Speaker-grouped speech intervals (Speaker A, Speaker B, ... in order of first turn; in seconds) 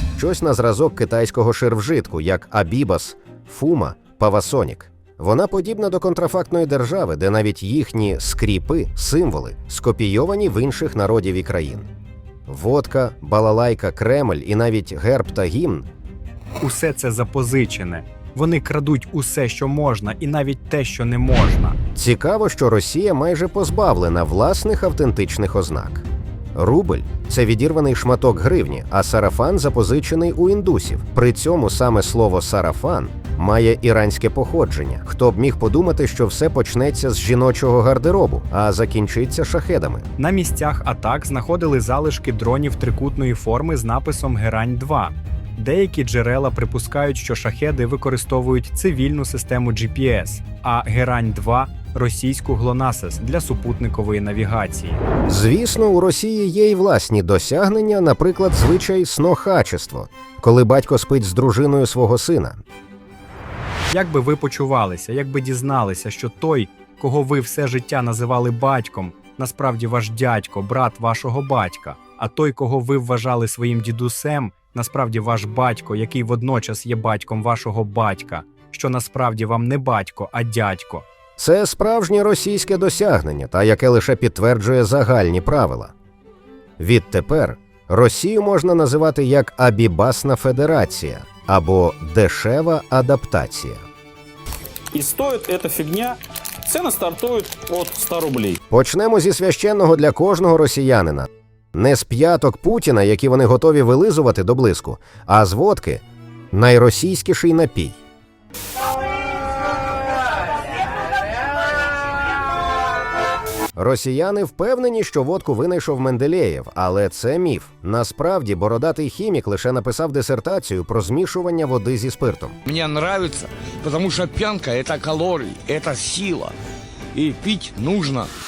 Speaker A: 0.2-11.9, 12.5-15.9, 21.9-40.1, 55.2-62.6, 81.4-85.9, 86.8-93.8, 98.7-108.0, 113.8-122.6
Speaker B: 16.6-21.8, 40.2-55.0, 63.9-81.0
Speaker C: 94.9-98.6
Speaker D: 122.7-126.6, 127.1-128.3